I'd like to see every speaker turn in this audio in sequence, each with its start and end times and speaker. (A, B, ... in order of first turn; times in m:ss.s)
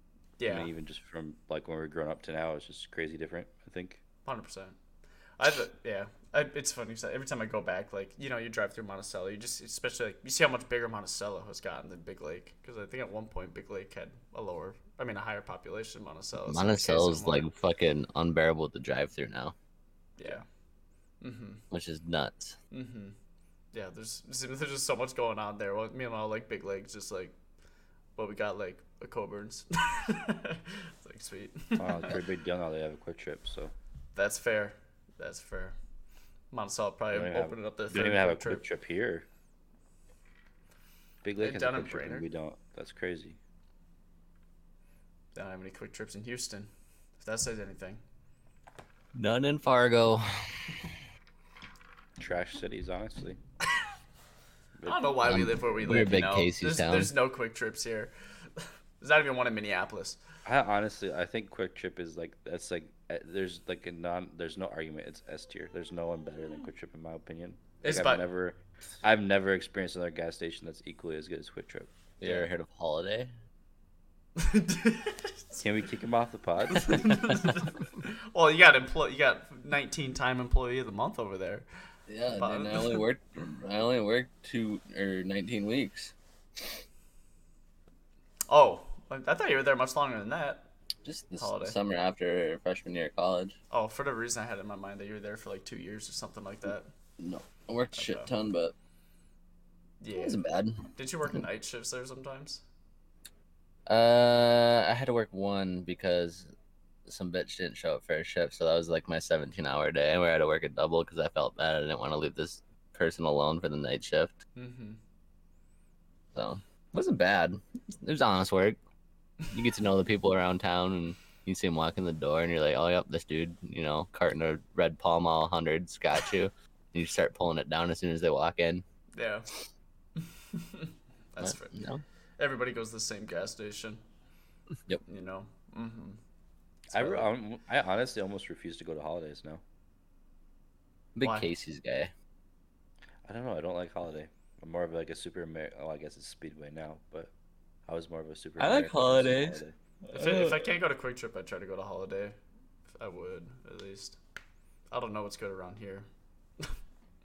0:00.4-0:00.7 A
0:00.4-0:04.0 B
0:04.2-0:04.8 A
0:05.4-0:17.5 A
0:16.4-0:19.6 C
0:20.2-0:20.4 A
0:21.2-0:21.6 A
0:21.7-0:22.6 C
0:22.7-0:23.2 A
0:23.7-0:27.4 A
0:28.2-0:32.2 A
0:31.8-0:33.7 B
0:34.1-0:35.8 A
0:36.5-0:38.6 A
0:37.1-0:39.3 B
0:41.2-0:43.4 B
0:41.4-0:42.3 A
0:45.4-0:48.0 A
0:49.2-0:50.8 C
0:52.2-0:53.4 B
0:54.8-0:55.2 B
0:54.8-1:00.2 A
0:55.3-0:57.1 C
1:00.4-1:11.9 B
1:07.8-1:08.2 A
1:12.2-1:13.3 C
1:14.4-1:15.6 A
1:15.6-1:17.4 B
1:16.8-1:21.7 A
1:22.1-1:26.1 C
1:22.4-1:23.0 A
1:28.5-1:30.7 A
1:31.0-1:33.6 C
1:31.4-1:31.8 A
1:33.7-1:36.9 A
1:37.2-1:38.7 C
1:37.9-1:38.3 A
1:40.0-1:40.4 A
1:40.2-1:40.9 C
1:41.0-1:42.6 A
1:43.9-1:46.5 C
1:47.1-1:54.4 C
1:54.6-1:55.0 A
1:56.4-1:58.8 C
1:59.5-2:08.8 C
2:09.1-2:09.5 A
2:10.2-2:11.8 A
2:11.4-2:12.0 C
2:12.4-2:14.0 A
2:15.1-2:16.2 A
2:16.9-2:19.6 B
2:16.9-2:17.3 A
2:21.2-2:22.1 C
2:21.2-2:21.5 A
2:23.2-2:27.3 B
2:27.9-2:29.8 B
2:28.6-2:29.6 C
2:30.1-2:32.4 A
2:30.2-2:30.5 C
2:33.0-2:34.2 A
2:34.9-2:36.1 A